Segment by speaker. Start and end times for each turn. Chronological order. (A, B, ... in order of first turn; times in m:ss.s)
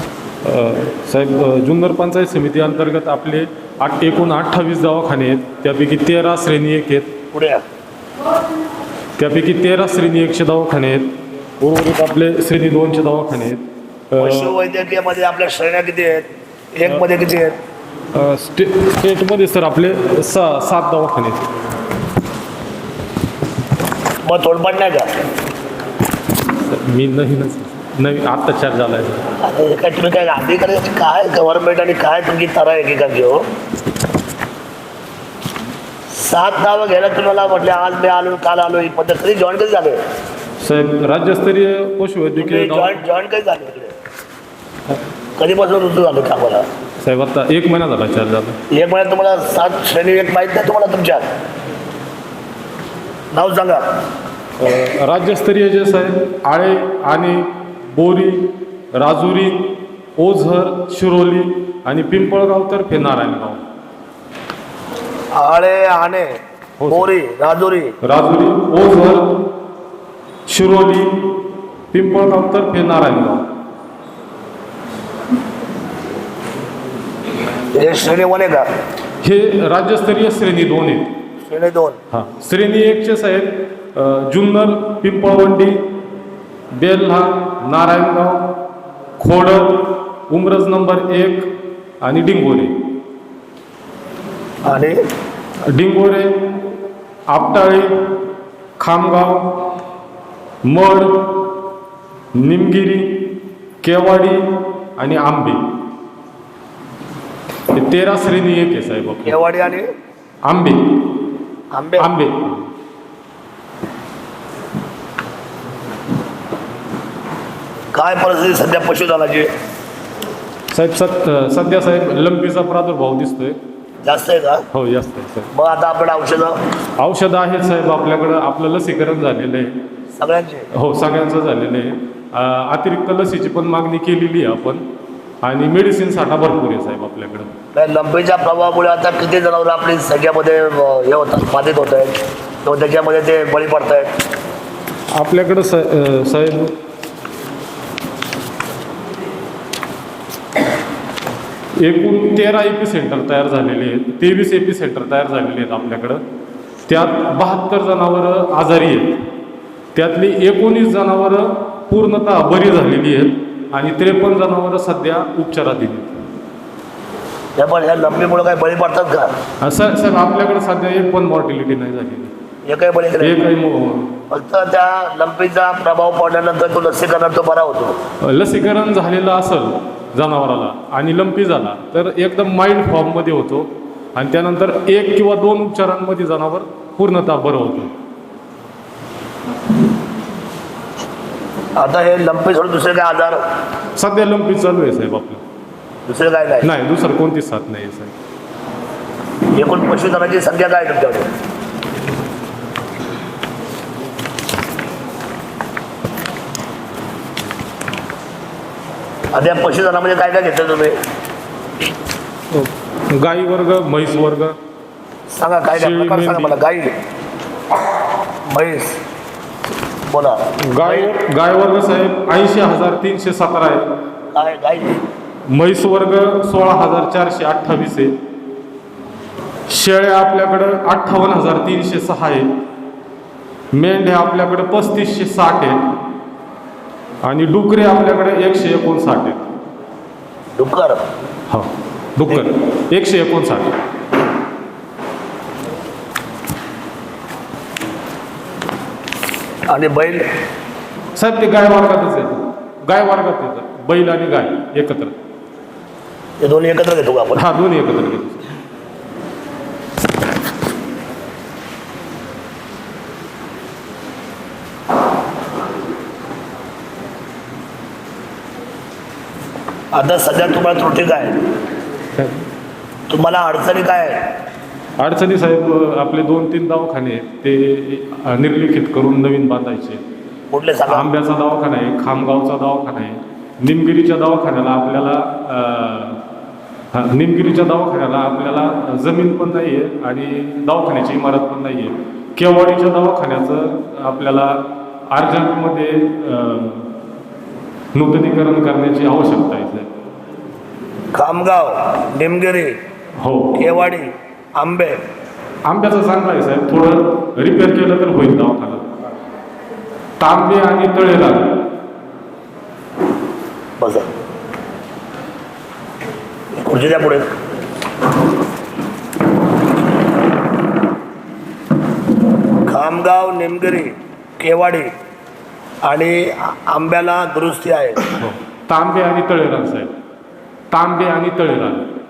0:00.4-0:07.2 A
0:07.3-0:07.6 B
0:09.2-0:14.5 A
0:14.2-0:17.6 B
0:18.1-0:21.5 A
0:24.2-0:25.1 B
0:26.5-0:29.2 A
0:29.4-0:33.4 B
0:36.1-0:40.0 B
0:40.6-0:43.0 A
0:42.4-0:43.9 B
0:45.4-0:46.6 B
0:47.0-0:48.6 A
0:48.7-0:51.2 B
0:53.3-0:53.8 B
0:54.6-1:03.6 A
1:05.4-1:06.3 B
1:06.8-1:07.1 A
1:06.9-1:08.0 B
1:08.0-1:09.4 A
1:10.4-1:11.2 A
1:11.9-1:13.5 A
1:17.7-1:18.7 B
1:19.2-1:21.1 A
1:21.4-1:22.0 B
1:22.1-1:25.8 A
1:26.7-1:28.5 A
1:29.2-1:31.5 A
1:32.0-1:32.8 A
1:34.6-1:35.0 B
1:35.6-1:36.5 A
1:37.3-1:38.0 A
1:38.8-1:39.6 A
1:40.6-1:41.5 A
1:42.3-1:43.3 A
1:43.8-1:44.4 A
1:45.0-1:45.6 A
1:47.7-1:49.4 A
1:49.2-1:49.9 B
1:50.4-1:51.1 A
1:51.7-1:52.1 B
1:52.0-1:52.7 A
1:57.9-1:59.5 B
2:00.7-2:03.6 A
2:04.0-2:04.6 B
2:04.7-2:05.5 A
2:05.5-2:06.6 B
2:07.0-2:09.8 A
2:10.2-2:10.7 B
2:10.7-2:14.8 A
2:15.4-2:17.5 A
2:17.7-2:24.1 B
2:25.1-2:26.8 A
2:31.8-2:36.2 A
2:36.9-2:39.2 A
2:39.9-2:46.2 A
2:47.6-2:49.3 B
2:49.6-2:52.3 A
2:52.6-2:53.4 B
2:53.2-2:54.1 A
2:54.3-2:58.0 B
2:58.2-3:07.9 A
3:11.8-3:13.4 B
3:13.9-3:15.4 A
3:16.0-3:16.7 B
3:16.6-3:18.1 A
3:19.5-3:21.3 B
3:29.3-3:31.0 B
3:32.5-3:34.6 A
3:35.3-3:36.9 B
3:35.7-3:36.6 A
3:38.5-3:39.0 B
3:40.0-3:41.1 B
3:40.6-3:43.9 A
3:44.3-3:45.0 B
3:45.5-3:48.1 A
3:49.7-3:52.5 A
3:53.7-3:55.8 A
3:57.2-3:59.5 A
4:00.6-4:01.0 B
4:01.5-4:03.8 A
4:09.7-4:10.3 B
4:11.1-4:15.1 A
4:16.4-4:17.4 B
4:17.3-4:18.5 A
4:29.9-4:31.4 B
4:33.1-4:34.3 B
4:35.0-4:40.0 A
4:40.5-4:41.1 B
4:40.9-4:46.2 A
4:46.9-4:56.9 A
4:57.9-4:59.9 A
5:01.1-5:02.8 B
5:03.2-5:03.6 A
5:03.6-5:05.0 B
5:05.6-5:08.9 A
5:10.2-5:11.5 A
5:13.8-5:14.1 B
5:16.5-5:17.2 B
5:22.6-5:24.9 B
5:25.8-5:28.0 B
5:28.2-5:29.9 A
5:30.7-5:31.9 A